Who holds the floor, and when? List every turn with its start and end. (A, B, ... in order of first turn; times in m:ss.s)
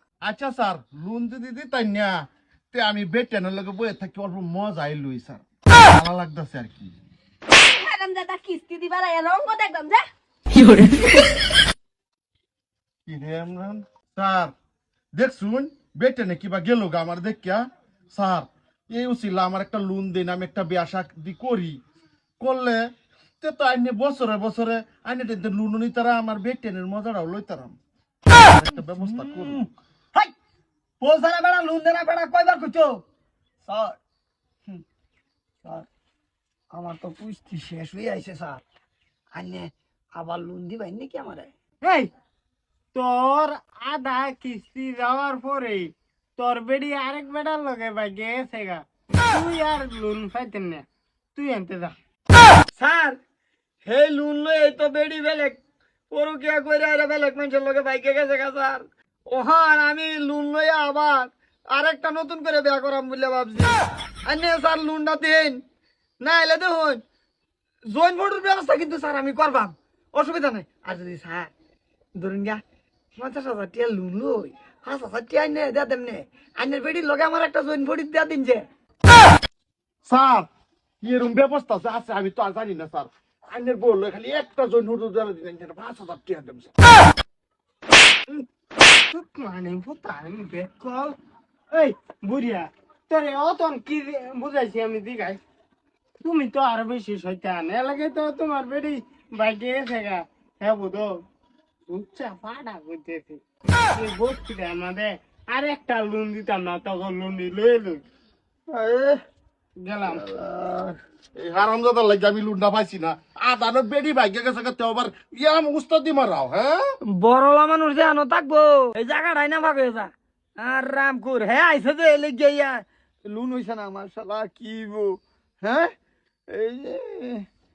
0:00.2-0:07.0 A
0:07.5-0:10.1 B
0:13.1-0:14.5 A
0:15.1-0:21.8 A
0:22.4-0:22.9 A
0:23.4-0:27.8 A
0:28.3-0:29.6 A
0:29.0-0:30.3 C
0:31.0-0:33.0 C
0:33.6-0:34.0 C
0:35.6-0:35.9 C
0:36.7-0:38.6 C
0:39.4-0:41.5 C
0:41.8-0:42.1 D
0:43.0-0:51.9 D
0:52.8-0:53.2 C
0:53.8-0:55.6 C
0:56.1-1:05.6 C
1:06.2-1:07.0 C
1:07.9-1:11.5 C
1:12.2-1:12.6 C
1:13.2-1:18.6 C
1:20.0-1:20.5 A
1:21.0-1:26.7 A
1:29.1-1:30.9 D
1:30.8-1:31.1 C
1:31.7-1:35.4 D
1:36.2-1:41.2 D
1:41.9-1:43.4 D
1:43.9-1:48.0 D
1:48.7-1:49.2 C
1:49.8-1:50.3 D
1:50.1-1:51.0 C
1:51.4-1:56.8 A
1:57.1-2:05.9 C
2:06.5-2:07.5 C